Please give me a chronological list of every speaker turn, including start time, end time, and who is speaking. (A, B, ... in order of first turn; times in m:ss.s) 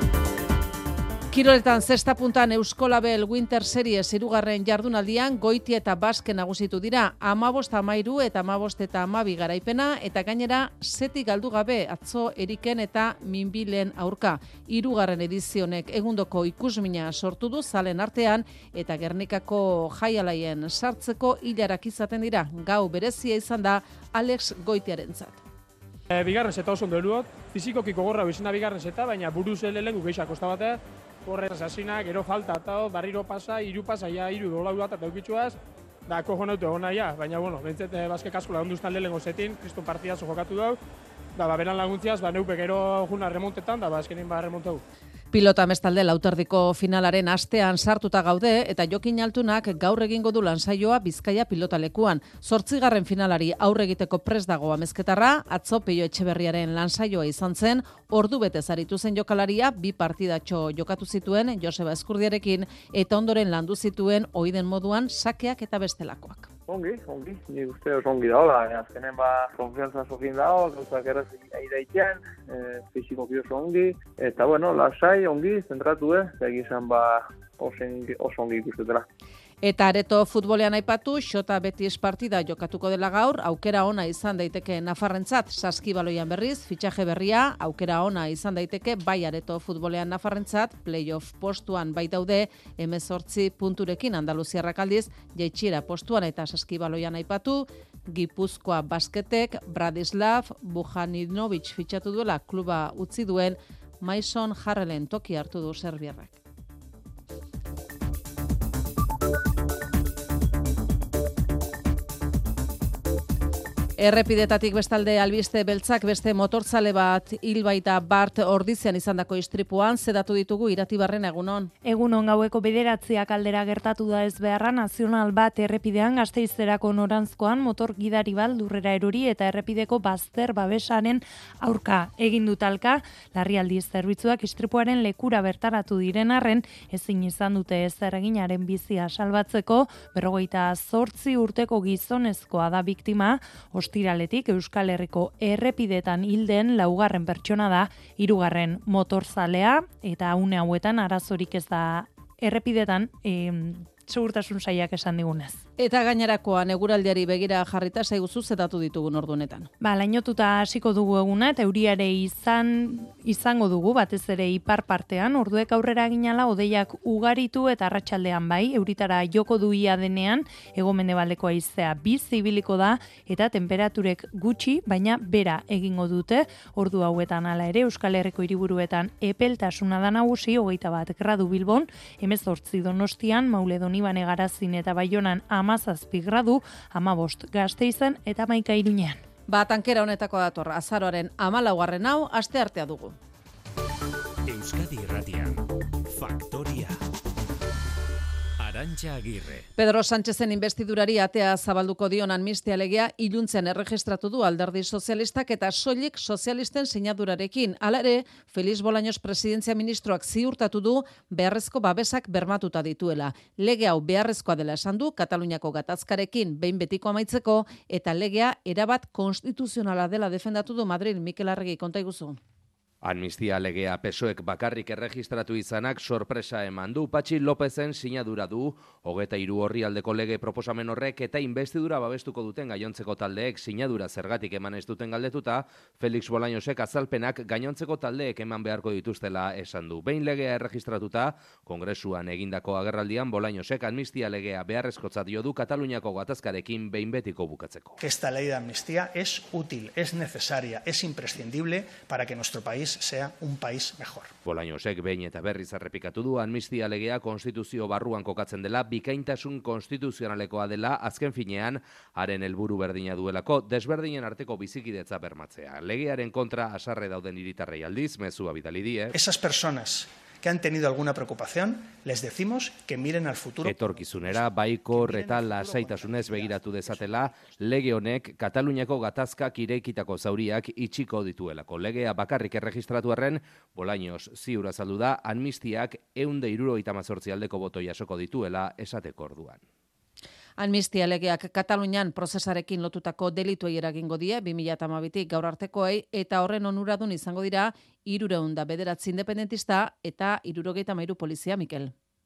0:01.3-0:25.4 A
0:26.1-0:40.8 B
0:41.4-0:44.8 B
0:45.3-1:06.5 A
1:06.7-1:19.0 C
1:19.6-1:46.4 A
1:54.0-2:01.7 A
2:01.8-2:35.6 D
2:35.8-2:39.7 A
2:39.8-3:09.2 D
3:09.5-3:13.2 A
3:19.8-3:42.4 A
3:43.0-4:08.0 E
4:08.0-4:14.3 F
4:14.4-4:29.2 E
4:29.1-4:34.4 F
4:33.6-4:49.6 E
4:50.6-5:01.9 A